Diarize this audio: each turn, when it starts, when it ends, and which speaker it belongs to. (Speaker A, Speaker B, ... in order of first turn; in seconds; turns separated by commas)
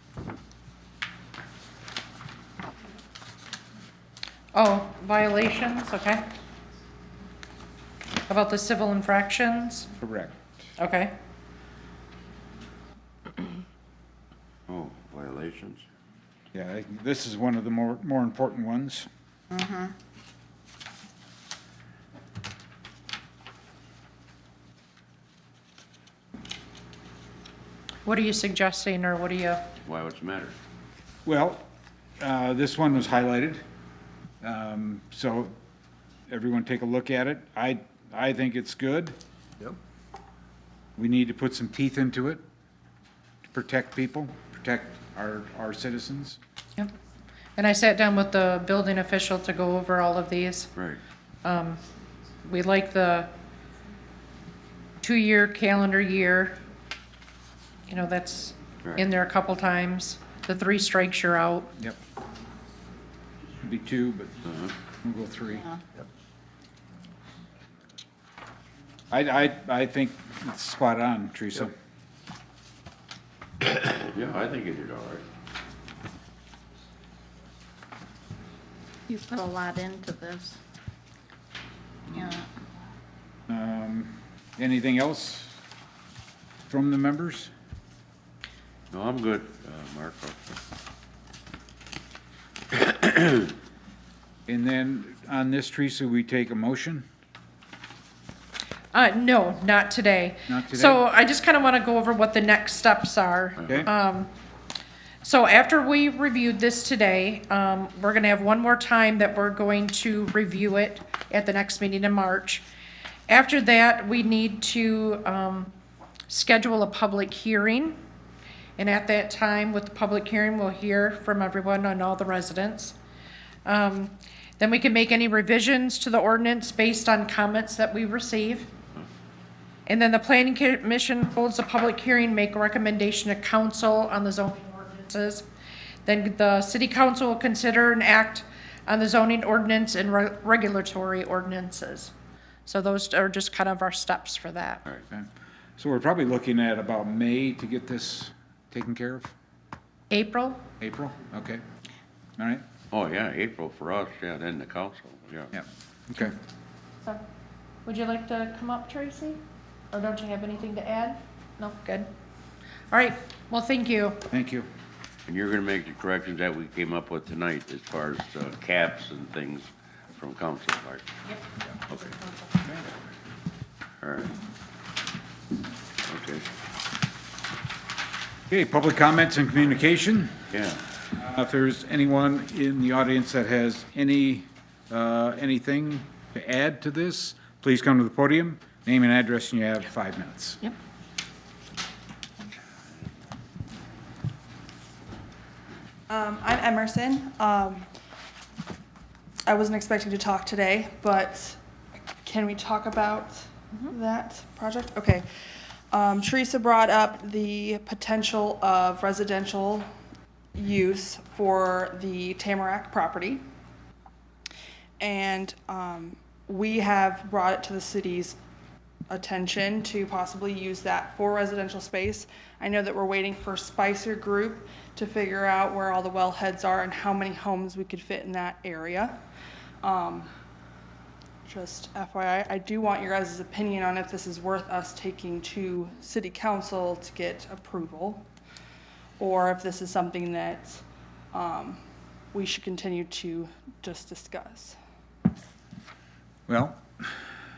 Speaker A: 4.5-6.3, Speaker A: 8.3-9.9, Speaker B: 10.0-10.6, Speaker A: 10.8-11.2, Speaker C: 14.7-15.8, Speaker B: 16.5-19.1, Speaker D: 19.5-19.9, Speaker A: 28.0-29.6, Speaker C: 29.8-30.6, Speaker B: 31.2-31.6, Speaker B: 32.2-33.6, Speaker B: 34.4-35.5, Speaker B: 36.3-39.2, Speaker B: 41.0-42.4, Speaker B: 43.4-46.4, Speaker A: 47.6-50.7, Speaker A: 51.4-51.8, Speaker A: 52.4-53.3, Speaker A: 55.0-56.6, Speaker A: 57.9-61.7, Speaker B: 63.6-64.3, Speaker C: 64.4-64.7, Speaker B: 65.0-65.7, Speaker B: 69.1-71.7, Speaker C: 73.6-75.2, Speaker D: 79.1-80.6, Speaker C: 82.1-82.3, Speaker D: 82.1-82.5, Speaker B: 83.5-85.6, Speaker B: 86.7-87.5, Speaker C: 88.9-90.4, Speaker C: 92.8-93.3, Speaker B: 94.5-97.0, Speaker A: 98.9-104.3, Speaker B: 100.5-101.0, Speaker C: 103.6-103.8, Speaker A: 105.2-112.6, Speaker A: 113.3-115.7, Speaker A: 116.3-118.0, Speaker A: 118.8-123.0, Speaker A: 123.6-128.7, Speaker A: 129.8-135.4, Speaker A: 136.0-142.1, Speaker A: 142.7-144.8, Speaker B: 145.1-149.3, Speaker A: 150.1-150.6, Speaker B: 150.8-151.6, Speaker B: 152.4-152.6, Speaker C: 152.9-155.5, Speaker B: 155.5-156.3, Speaker A: 157.8-162.1, Speaker A: 162.9-164.2, Speaker B: 164.3-164.7, Speaker C: 165.3-171.1, Speaker C: 171.9-172.2, Speaker C: 174.0-174.3, Speaker C: 176.0-176.5, Speaker B: 178.5-180.3, Speaker C: 180.5-180.8, Speaker B: 181.2-190.6, Speaker E: 196.1-197.9, Speaker E: 199.4-201.6, Speaker E: 202.2-205.2, Speaker E: 205.9-209.9, Speaker E: 210.5-213.4, Speaker E: 215.0-218.4, Speaker E: 219.1-229.2, Speaker E: 229.8-230.3, Speaker E: 231.4-238.3, Speaker E: 239.2-241.8, Speaker E: 242.3-244.8, Speaker B: 246.5-247.1